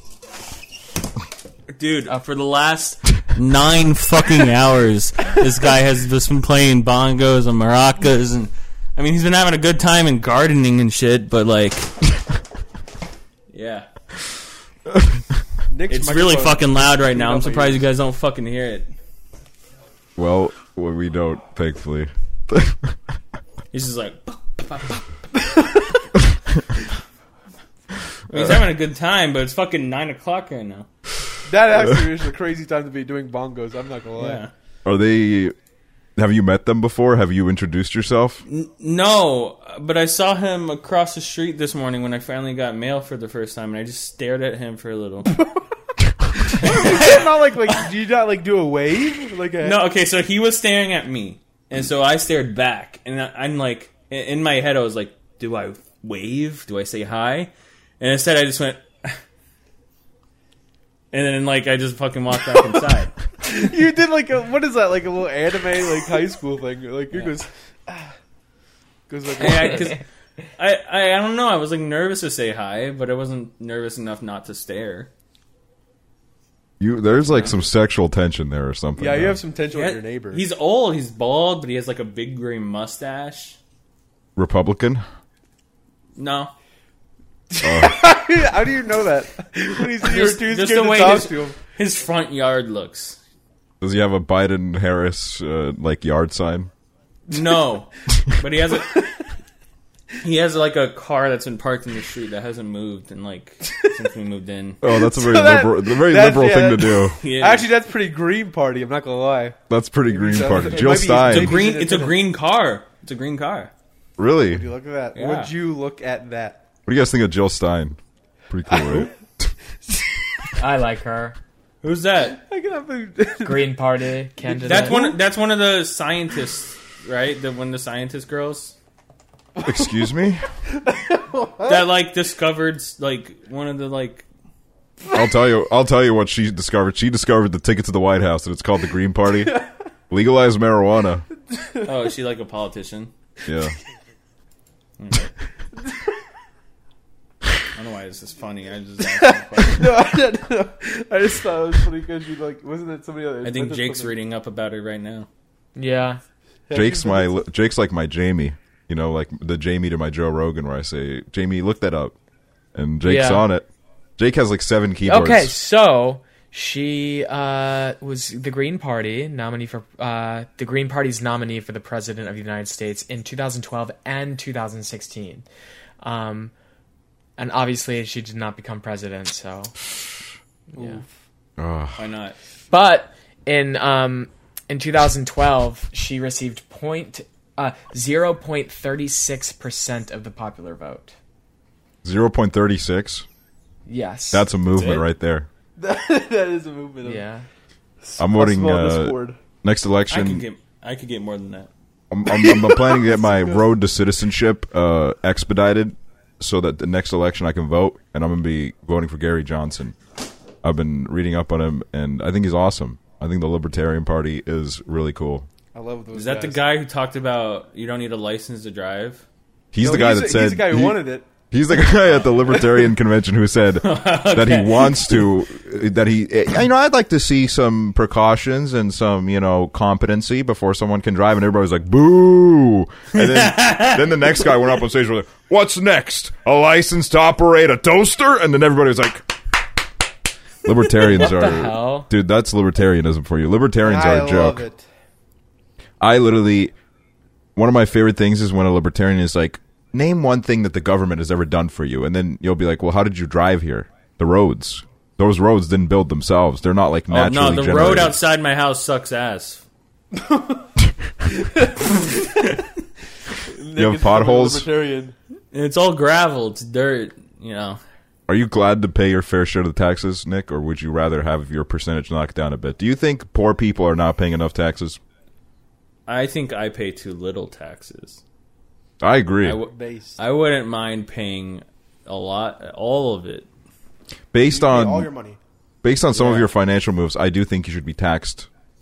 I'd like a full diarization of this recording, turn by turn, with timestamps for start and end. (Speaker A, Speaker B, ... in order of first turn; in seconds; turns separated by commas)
Speaker A: 1.7-11.9, Speaker A: 13.5-13.9, Speaker B: 14.9-15.4, Speaker C: 15.7-17.8, Speaker A: 15.9-18.9, Speaker B: 20.2-23.0, Speaker A: 23.7-25.0, Speaker C: 25.4-25.8, Speaker A: 28.3-30.9, Speaker C: 31.4-34.4, Speaker A: 34.2-34.5, Speaker B: 34.8-35.5, Speaker B: 36.1-38.4, Speaker A: 38.5-45.4, Speaker C: 46.4-49.8, Speaker A: 46.5-47.8, Speaker A: 49.6-59.2, Speaker A: 61.1-63.1, Speaker C: 63.4-68.1, Speaker C: 69.1-70.0, Speaker A: 69.3-70.0, Speaker A: 70.6-75.1, Speaker B: 76.8-79.4, Speaker C: 79.0-80.4, Speaker A: 79.7-83.6, Speaker B: 84.3-85.0, Speaker A: 86.2-86.5, Speaker C: 87.5-91.6, Speaker B: 87.6-88.0, Speaker A: 90.0-93.2, Speaker B: 93.8-96.7, Speaker A: 97.3-99.1, Speaker C: 98.8-99.1, Speaker A: 100.2-104.8, Speaker B: 104.8-107.2, Speaker C: 104.8-112.2, Speaker A: 107.2-107.7, Speaker B: 109.7-111.6, Speaker A: 110.6-113.7, Speaker B: 114.2-114.7, Speaker C: 114.5-116.6, Speaker A: 115.1-115.5, Speaker B: 116.8-118.0, Speaker B: 118.5-119.5, Speaker C: 118.7-119.1, Speaker D: 120.6-121.3, Speaker A: 121.8-122.4, Speaker C: 122.3-123.8, Speaker D: 123.4-125.0, Speaker C: 124.4-125.2, Speaker A: 124.6-128.7, Speaker B: 129.6-130.4, Speaker C: 130.7-131.9, Speaker A: 131.6-134.2, Speaker B: 135.1-141.2, Speaker C: 141.5-141.9, Speaker A: 141.8-143.1, Speaker B: 143.4-143.7, Speaker A: 145.0-145.3, Speaker A: 147.7-149.9, Speaker C: 149.1-154.1, Speaker A: 153.4-155.3, Speaker D: 155.8-156.2, Speaker C: 156.7-157.4, Speaker B: 156.7-162.1, Speaker B: 162.7-163.7, Speaker D: 163.0-163.4, Speaker B: 164.2-165.5, Speaker D: 165.0-175.4, Speaker D: 176.0-176.5, Speaker D: 177.4-179.7, Speaker C: 180.7-181.1, Speaker B: 181.6-182.0, Speaker A: 181.9-182.3, Speaker D: 182.7-191.1, Speaker B: 192.0-193.2, Speaker D: 193.9-195.0, Speaker B: 194.3-195.5, Speaker C: 195.8-197.2, Speaker D: 197.0-197.4, Speaker C: 198.0-199.4, Speaker B: 198.2-200.4, Speaker A: 200.1-201.7, Speaker B: 202.1-209.9, Speaker C: 202.2-203.6, Speaker B: 210.6-215.5, Speaker C: 215.7-216.6, Speaker A: 216.1-219.2, Speaker B: 219.7-239.3, Speaker C: 219.8-221.3, Speaker A: 222.1-222.4, Speaker A: 223.8-225.3, Speaker A: 233.1-234.5, Speaker B: 240.6-244.6, Speaker D: 241.0-242.1, Speaker C: 243.8-244.8, Speaker B: 246.0-246.7, Speaker B: 247.6-258.2, Speaker A: 257.1-259.6, Speaker C: 260.1-260.7, Speaker C: 261.3-262.4, Speaker C: 263.4-265.1, Speaker B: 263.7-264.7, Speaker A: 265.5-267.8, Speaker B: 268.3-275.0, Speaker A: 276.1-278.2, Speaker B: 279.0-279.6, Speaker A: 279.4-283.5, Speaker C: 279.6-280.2, Speaker B: 284.3-285.1, Speaker C: 284.4-285.4, Speaker B: 285.8-288.5, Speaker A: 286.1-286.4